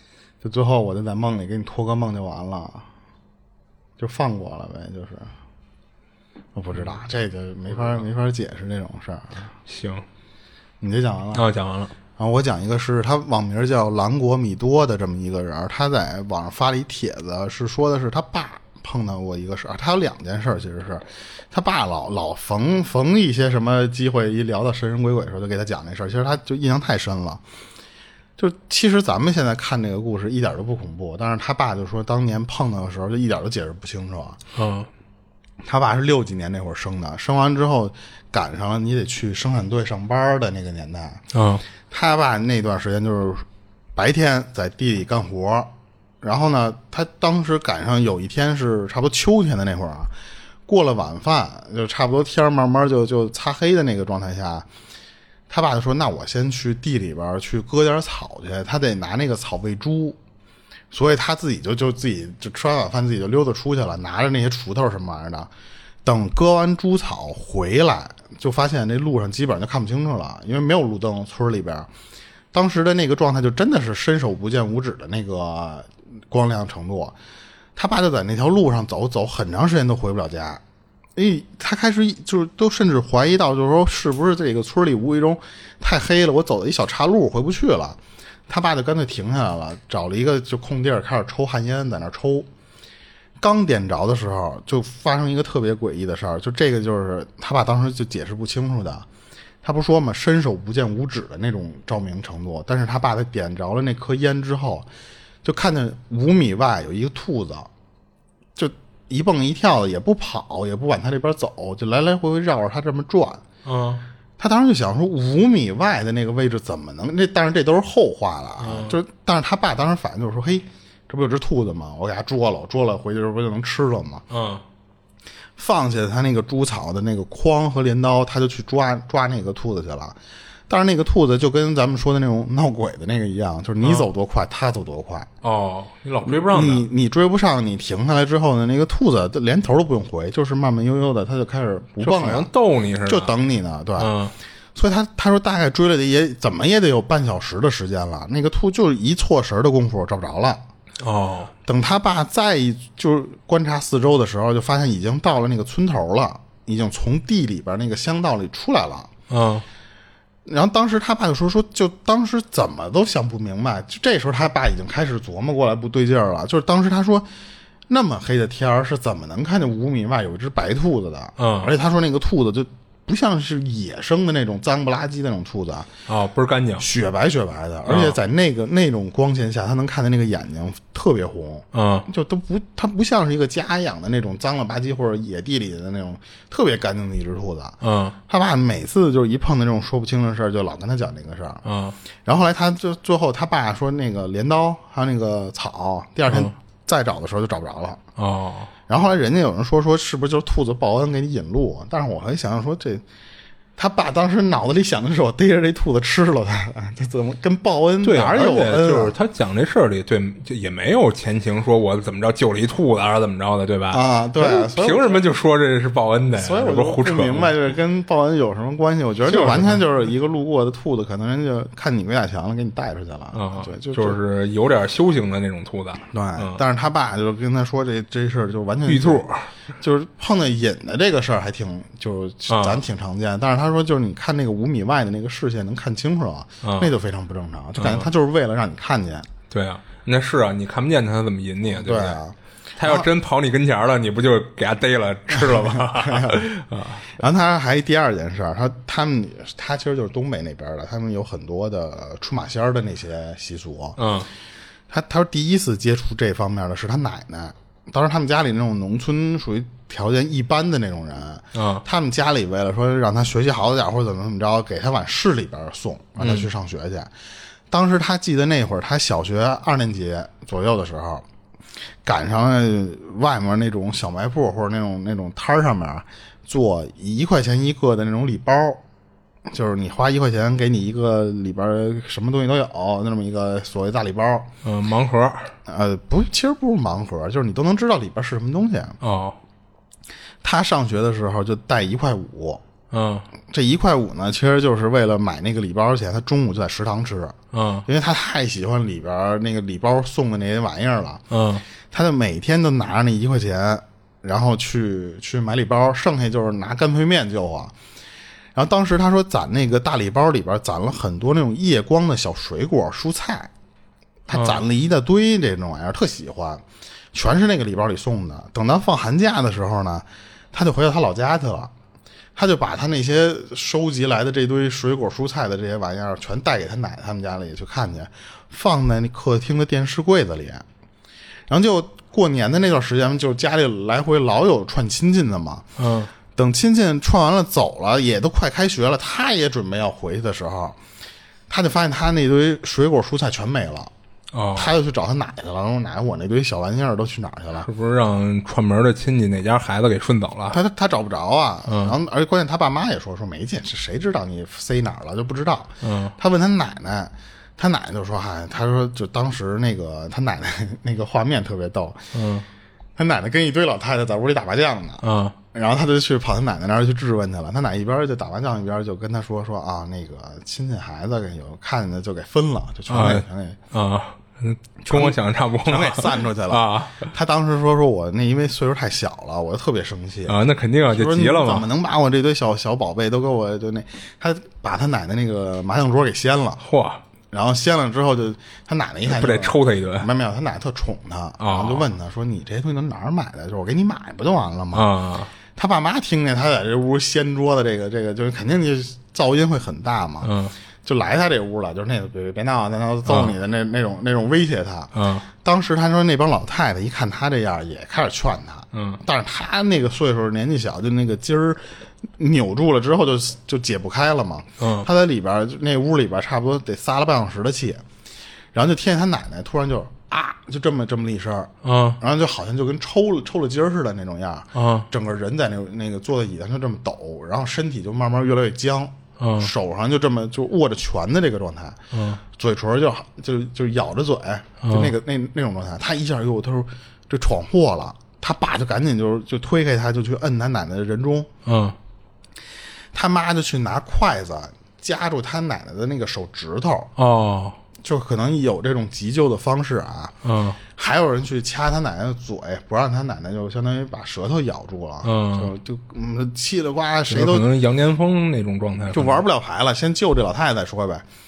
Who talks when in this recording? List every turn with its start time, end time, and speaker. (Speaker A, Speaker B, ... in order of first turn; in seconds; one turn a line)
Speaker A: 0.4-2.9
Speaker A: 4.0-5.3
Speaker A: 6.5-9.5
Speaker B: 9.7-10.1
Speaker A: 10.8-11.5
Speaker B: 11.3-11.9
Speaker A: 12.2-27.4
Speaker A: 28.4-34.4
Speaker B: 34.5-34.9
Speaker A: 35.6-41.2
Speaker B: 41.3-41.6
Speaker A: 41.9-43.5
Speaker A: 44.0-50.1
Speaker A: 50.7-54.7
Speaker A: 55.5-60.2
Speaker A: 60.9-65.5
Speaker A: 66.0-71.9
Speaker A: 72.5-77.2
Speaker A: 77.8-80.6
Speaker A: 81.2-92.5
Speaker A: 93.4-99.1
Speaker A: 99.6-104.9
Speaker A: 105.4-107.7
Speaker A: 108.6-113.4
Speaker B: 113.7-114.1
Speaker A: 114.4-124.3
Speaker B: 118.6-119.0
Speaker B: 124.3-124.6
Speaker A: 125.6-135.3
Speaker B: 133.8-134.1
Speaker B: 135.4-136.9
Speaker A: 136.3-142.5
Speaker B: 142.0-143.3
Speaker A: 143.0-144.1
Speaker B: 144.0-144.3
Speaker A: 144.8-150.7
Speaker B: 151.0-151.5
Speaker A: 151.7-159.1
Speaker B: 159.3-159.7
Speaker A: 160.4-167.3
Speaker A: 167.9-175.9
Speaker B: 171.4-171.7
Speaker B: 176.1-176.9
Speaker A: 176.8-191.6
Speaker B: 177.9-178.2
Speaker B: 181.7-182.1
Speaker B: 187.8-188.2
Speaker B: 191.7-192.0
Speaker A: 192.2-198.0
Speaker B: 196.3-196.5
Speaker B: 198.2-198.7
Speaker A: 198.9-203.0
Speaker A: 203.8-209.2
Speaker B: 208.0-217.6
Speaker A: 213.9-215.2
Speaker A: 216.4-224.2
Speaker B: 219.3-219.8
Speaker B: 223.3-226.6
Speaker A: 226.1-229.3
Speaker B: 228.9-229.5
Speaker A: 229.8-239.3
Speaker B: 232.5-232.8
Speaker B: 236.6-236.9
Speaker B: 237.8-238.1
Speaker B: 239.5-242.2
Speaker A: 241.7-243.1
Speaker B: 242.8-247.1
Speaker A: 245.3-246.5
Speaker A: 247.1-254.0
Speaker B: 254.0-254.3
Speaker A: 254.9-267.1
Speaker B: 261.5-261.8
Speaker B: 266.2-266.5
Speaker A: 267.7-271.3
Speaker A: 272.0-278.8
Speaker A: 279.5-284.5
Speaker B: 284.6-285.5
Speaker A: 285.7-289.0
Speaker B: 289.0-289.4
Speaker A: 290.4-292.6
Speaker B: 292.9-293.3
Speaker A: 293.5-301.2
Speaker B: 297.5-297.9
Speaker B: 301.3-301.6
Speaker A: 301.9-307.7
Speaker A: 308.6-313.5
Speaker A: 314.3-321.7
Speaker B: 314.3-314.6
Speaker A: 322.4-330.6
Speaker A: 331.5-335.7
Speaker B: 335.8-336.1
Speaker A: 336.4-340.8
Speaker A: 341.5-343.9
Speaker B: 344.3-344.7
Speaker A: 344.6-347.7
Speaker B: 347.6-350.6
Speaker A: 350.5-362.1
Speaker B: 351.7-351.9
Speaker B: 355.8-356.2
Speaker B: 362.1-362.5
Speaker A: 363.0-373.6
Speaker B: 365.0-365.4
Speaker B: 372.9-377.1
Speaker A: 374.8-380.4
Speaker B: 380.3-381.7
Speaker A: 380.9-386.6
Speaker B: 386.6-387.0
Speaker A: 387.3-394.9
Speaker B: 389.1-390.1
Speaker B: 391.4-391.9
Speaker B: 394.7-395.3
Speaker A: 395.6-400.3
Speaker B: 400.2-400.5
Speaker A: 400.8-417.8
Speaker B: 403.1-403.3
Speaker B: 404.9-405.3
Speaker B: 408.7-409.0
Speaker B: 414.6-414.9
Speaker A: 418.5-441.3
Speaker B: 421.6-422.0
Speaker B: 424.5-424.9
Speaker B: 429.2-429.5
Speaker B: 431.9-432.2
Speaker B: 434.6-434.9
Speaker B: 441.4-441.8
Speaker A: 442.9-446.9
Speaker B: 447.0-447.6
Speaker A: 447.8-457.5
Speaker B: 450.2-450.6
Speaker B: 455.0-455.5
Speaker B: 457.1-459.2
Speaker A: 458.9-461.1